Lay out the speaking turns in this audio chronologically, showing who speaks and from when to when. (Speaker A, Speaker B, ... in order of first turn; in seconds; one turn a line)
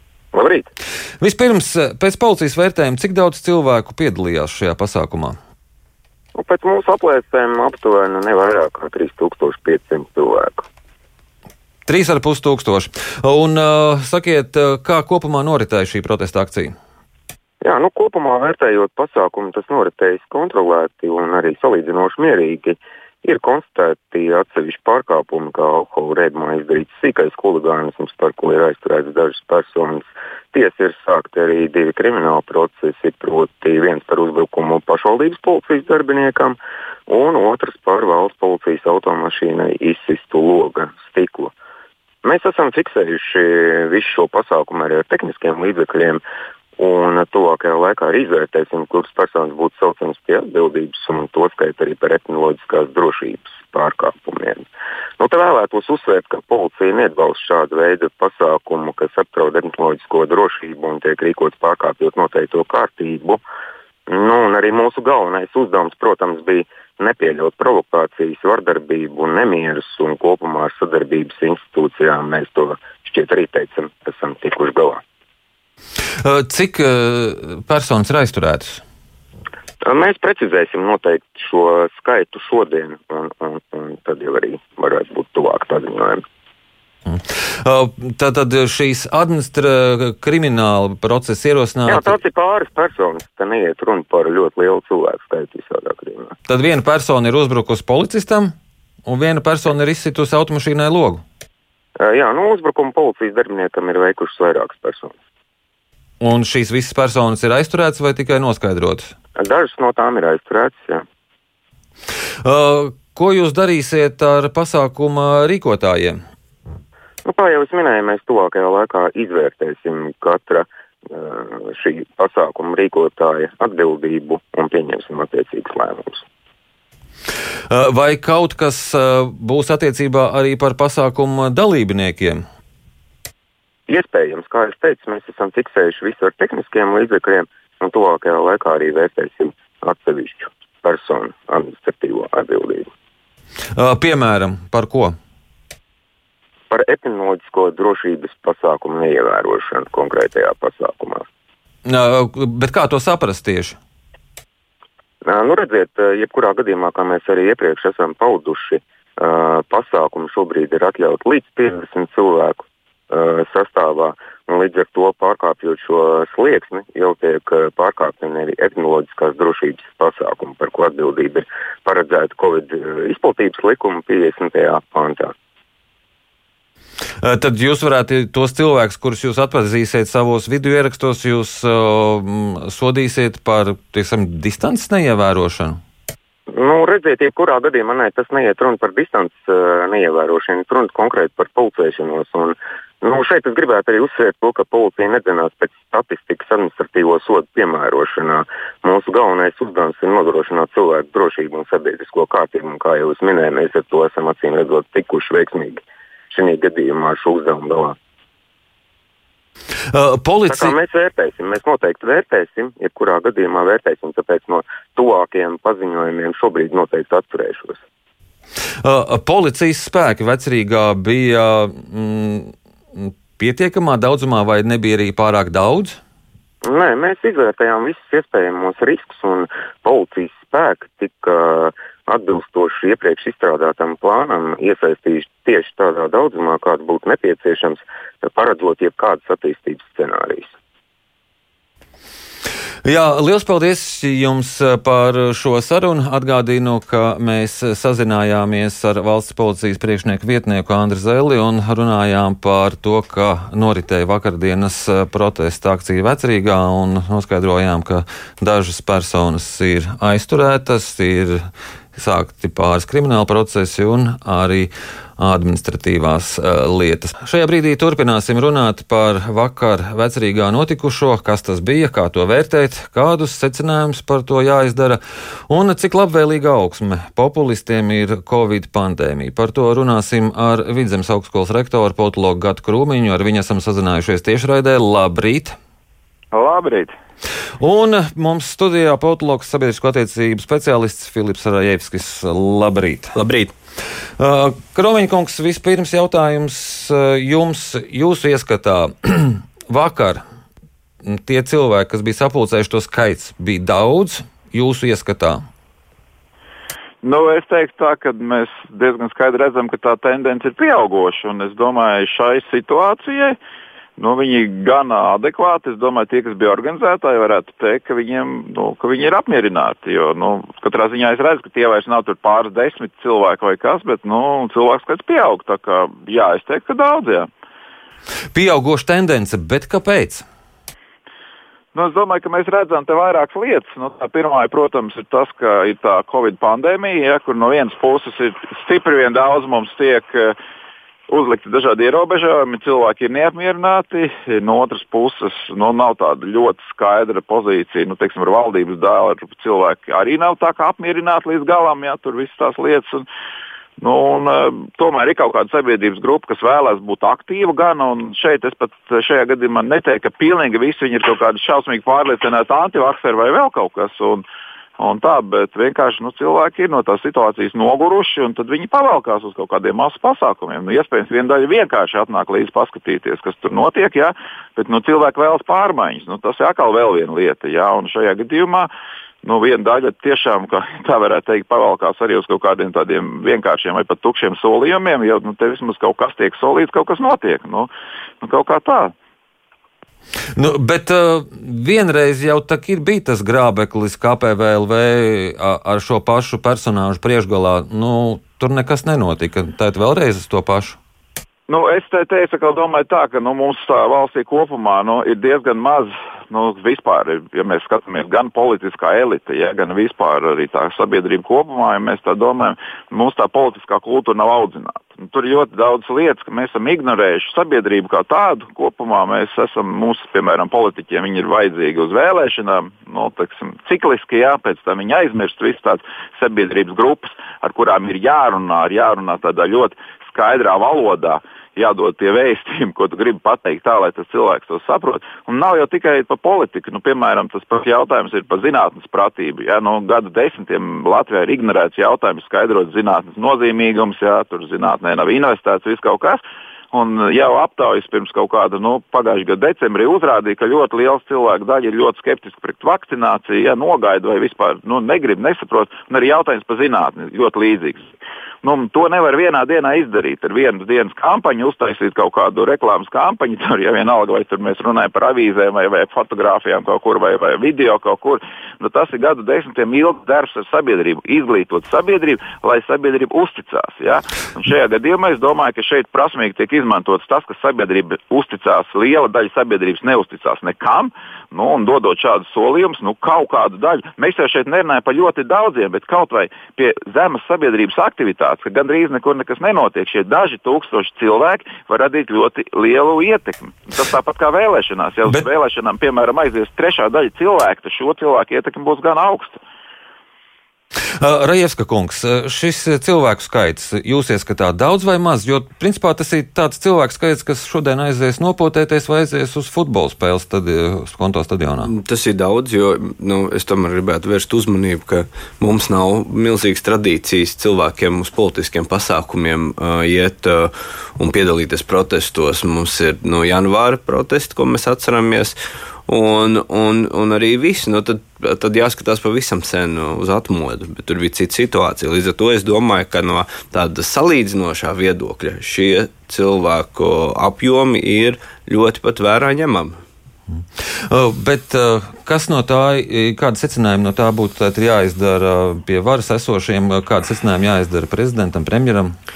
Speaker A: 0.3-0.7
Speaker B: 1.2-5.4
Speaker A: 6.3-10.6
Speaker B: 11.8-16.7
Speaker A: 17.6-41.5
Speaker A: 42.2-46.2
Speaker A: 46.8-54.7
Speaker A: 55.2-63.4
Speaker A: 64.1-75.0
Speaker B: 76.2-78.8
Speaker A: 79.8-86.2
Speaker B: 87.1-92.2
Speaker A: 91.9-96.3
Speaker B: 96.5-98.5
Speaker B: 99.1-101.2
Speaker A: 102.0-105.1
Speaker B: 106.2-109.1
Speaker A: 109.4-111.0
Speaker B: 112.4-116.2
Speaker A: 117.2-126.2
Speaker B: 127.7-132.4
Speaker A: 133.9-142.9
Speaker B: 143.8-145.1
Speaker A: 146.7-151.2
Speaker B: 151.9-153.8
Speaker A: 155.2-175.3
Speaker B: 177.2-185.8
Speaker A: 186.5-207.9
Speaker B: 209.9-210.7
Speaker A: 210.5-217.8
Speaker B: 218.8-226.0
Speaker A: 226.6-240.5
Speaker B: 242.8-261.4
Speaker B: 261.9-285.6
Speaker C: 286.3-286.9
Speaker B: 287.6-293.1
Speaker D: 293.1-293.5
Speaker B: 294.2-300.2
Speaker B: 301.1-305.4
Speaker C: 307.0-313.4
Speaker C: 314.0-327.3
Speaker B: 328.3-330.2
Speaker C: 331.7-340.4
Speaker C: 341.1-353.1
Speaker C: 353.8-364.2
Speaker C: 364.8-378.7
Speaker C: 379.2-387.7
Speaker C: 388.2-388.9
Speaker B: 390.4-400.8
Speaker C: 401.5-457.9
Speaker C: 458.4-499.4
Speaker B: 501.0-511.7
Speaker D: 511.7-539.8
Speaker B: 540.9-548.9